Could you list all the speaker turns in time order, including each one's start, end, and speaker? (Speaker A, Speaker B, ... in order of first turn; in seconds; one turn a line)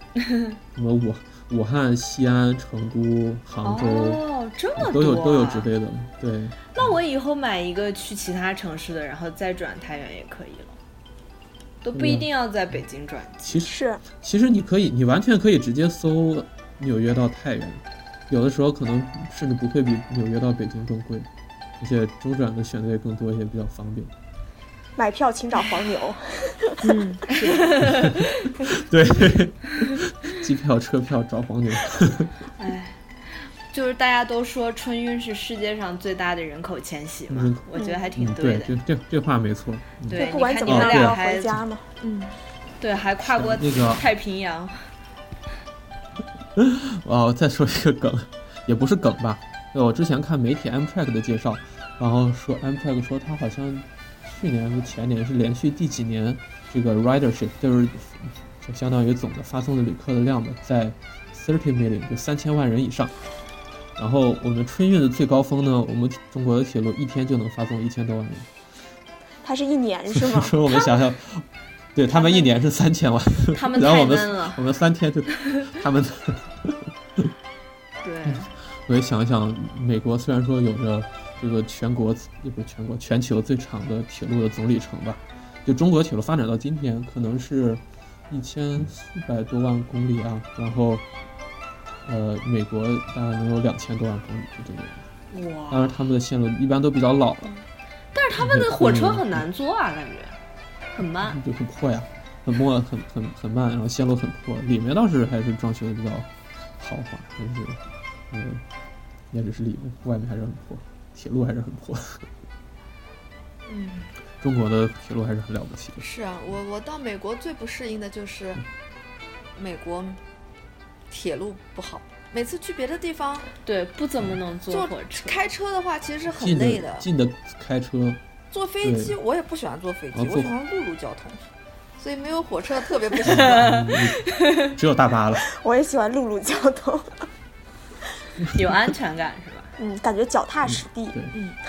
Speaker A: 0.2-0.5
Speaker B: 0.7-4.2
Speaker A: 3.6-5.7
Speaker B: 4.8-6.9
Speaker A: 6.7-10.8
Speaker A: 11.8-13.7
Speaker B: 11.9-12.3
Speaker B: 13.4-21.3
Speaker C: 13.7-14.0
Speaker B: 21.8-24.1
Speaker C: 24.9-26.8
Speaker D: 26.8-27.7
Speaker A: 27.3-28.5
Speaker B: 27.8-32.3
Speaker A: 32.6-33.0
Speaker A: 33.7-38.7
Speaker B: 37.3-37.6
Speaker B: 38.1-41.2
Speaker A: 40.1-41.6
Speaker C: 40.1-41.8
Speaker D: 42.0-42.3
Speaker A: 42.8-44.9
Speaker B: 43.2-44.1
Speaker B: 46.5-63.1
Speaker B: 64.0-68.5
Speaker C: 69.4-71.0
Speaker B: 70.1-77.3
Speaker A: 72.2-72.4
Speaker A: 73.5-74.6
Speaker A: 78.0-78.5
Speaker B: 78.2-91.0
Speaker B: 92.0-95.0
Speaker A: 95.3-96.0
Speaker B: 95.7-97.6
Speaker A: 98.1-100.4
Speaker B: 98.3-99.4
Speaker A: 100.9-101.4
Speaker B: 101.2-107.8
Speaker B: 108.3-108.6
Speaker B: 109.3-112.2
Speaker B: 114.4-116.0
Speaker D: 116.0-118.6
Speaker D: 119.5-120.2
Speaker D: 121.1-123.5
Speaker A: 123.6-125.4
Speaker D: 124.7-127.1
Speaker B: 126.3-128.2
Speaker D: 128.5-131.5
Speaker B: 128.8-129.1
Speaker B: 130.1-130.5
Speaker D: 132.0-133.7
Speaker B: 133.2-135.5
Speaker A: 133.2-134.7
Speaker C: 135.5-137.3
Speaker A: 138.5-139.7
Speaker C: 139.8-141.2
Speaker B: 140.7-141.3